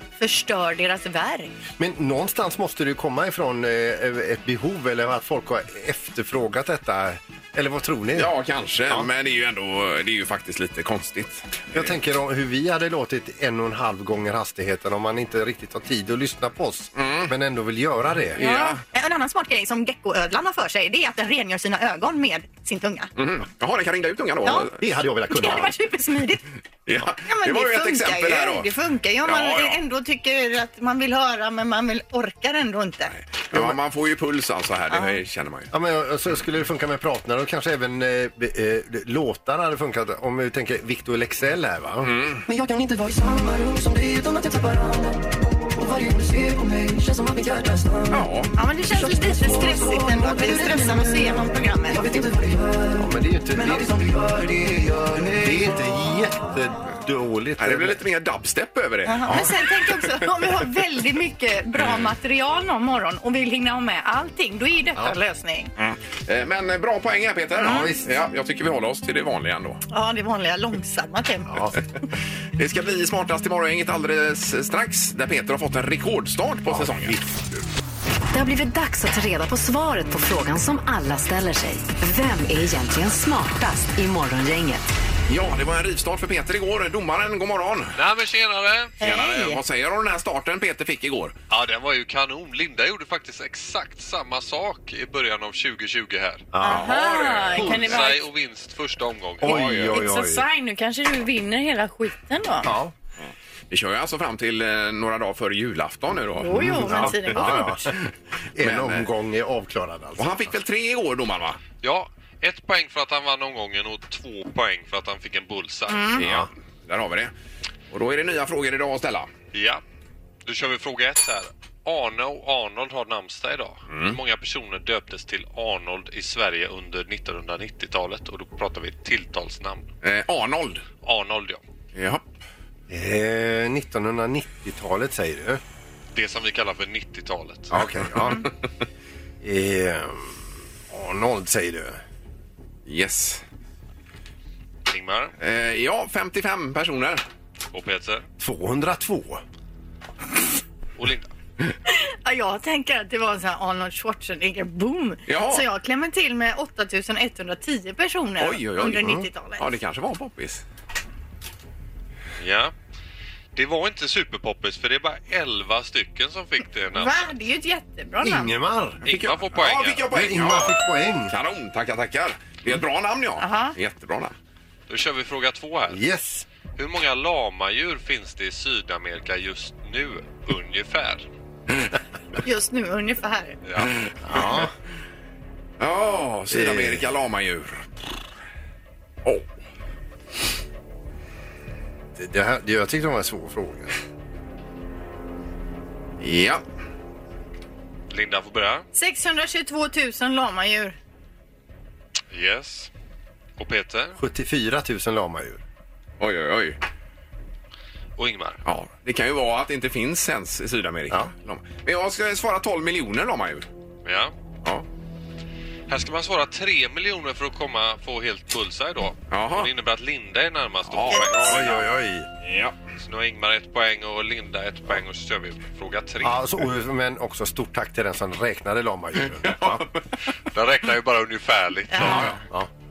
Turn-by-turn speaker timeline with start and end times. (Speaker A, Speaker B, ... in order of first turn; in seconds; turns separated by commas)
Speaker A: 0.2-1.5, Speaker B: 1.8-8.3, Speaker C: 8.1-11.9, Speaker B: 11.7-18.4, Speaker C: 16.9-17.3, Speaker C: 18.4-18.8, Speaker A: 18.4-23.1, Speaker C: 23.1-24.8, Speaker A: 24.4-24.7, Speaker B: 24.8-25.7, Speaker A: 25.3-26.4, Speaker C: 26.9-28.7, Speaker A: 27.2-33.1, Speaker C: 29.2-29.8, Speaker C: 33.1-35.7, Speaker B: 33.5-33.8, Speaker A: 34.9-35.2, Speaker B: 35.7-42.1, Speaker C: 42.0-42.4, Speaker D: 42.5-48.2, Speaker C: 48.1-48.5, Speaker A: 48.5-52.0, Speaker D: 48.9-52.9, Speaker B: 52.9-54.0, Speaker D: 53.5-55.6, Speaker B: 55.4-58.0, Speaker C: 57.6-59.5, Speaker A: 59.0-65.7, Speaker B: 59.2-59.5, Speaker C: 61.8-62.1, Speaker C: 65.8-69.8, Speaker B: 67.6-68.0, Speaker A: 69.9-71.7, Speaker B: 71.5-71.8, Speaker C: 72.6-77.1, Speaker B: 76.7-77.6, Speaker E: 78.3-84.9, Speaker C: 85.3-88.0, Speaker F: 88.0-89.2, Speaker A: 89.0-89.6, Speaker C: 89.0-91.3, Speaker F: 91.5-96.5, Speaker B: 96.5-96.8, Speaker A: 96.6-98.2, Speaker C: 96.6-98.1, Speaker F: 97.5-99.6, Speaker C: 99.4-100.0, Speaker B: 99.4-100.4, Speaker A: 99.9-102.7, Speaker B: 102.6-102.9, Speaker C: 103.2-107.9, Speaker A: 106.4-107.7, Speaker B: 106.5-108.0, Speaker B: 108.6-110.5, Speaker C: 108.6-109.1, Speaker C: 110.2-111.6, Speaker F: 111.8-116.5, Speaker A: 115.9-116.2, Speaker C: 116.2-117.3, Speaker C: 117.9-119.3, Speaker F: 119.5-119.8, Speaker F: 120.4-129.9, Speaker C: 123.9-124.2, Speaker C: 130.0-130.8, Speaker F: 131.0-131.6, Speaker C: 131.9-132.2, Speaker B: 132.9-135.6, Speaker F: 136.1-137.7, Speaker C: 137.7-138.5, Speaker B: 137.7-138.5, Speaker B: 139.4-140.4, Speaker B: 140.9-142.0, Speaker C: 142.8-143.4, Speaker F: 144.9-145.3, Speaker C: 145.4-147.2, Speaker F: 147.7-148.2, Speaker B: 148.4-149.4, Speaker F: 151.0-151.3, Speaker A: 151.9-159.6, Speaker C: 155.3-155.6, Speaker C: 158.4-160.6, Speaker B: 158.9-159.2, Speaker F: 162.4-162.7, Speaker F: 163.6-167.3, Speaker A: 166.9-168.5, Speaker B: 168.2-169.0, Speaker F: 169.0-170.1, Speaker C: 169.0-174.3, Speaker B: 170.1-171.3, Speaker A: 173.4-173.7, Speaker F: 174.9-176.0, Speaker B: 175.9-176.4, Speaker F: 176.7-181.2, Speaker A: 182.4-183.6, Speaker F: 183.7-183.9, Speaker C: 183.8-184.6, Speaker B: 184.2-184.7, Speaker C: 185.8-187.9, Speaker B: 186.5-187.1, Speaker B: 192.2-193.9, Speaker C: 196.2-196.6, Speaker F: 198.1-198.8, Speaker A: 198.9-200.9, Speaker F: 202.3-202.9, Speaker F: 203.6-204.2, Speaker B: 204.2-205.6, Speaker C: 206.2-206.8, Speaker F: 208.2-208.6, Speaker C: 208.6-213.7, Speaker F: 214.0-214.3, Speaker F: 215.9-221.9, Speaker C: 219.3-219.7, Speaker C: 220.9-221.7, Speaker B: 221.4-222.2, Speaker C: 222.4-222.7, Speaker F: 223.0-226.4, Speaker B: 226.2-229.8, Speaker C: 229.4-229.9, Speaker F: 230.5-232.4, Speaker C: 232.0-232.4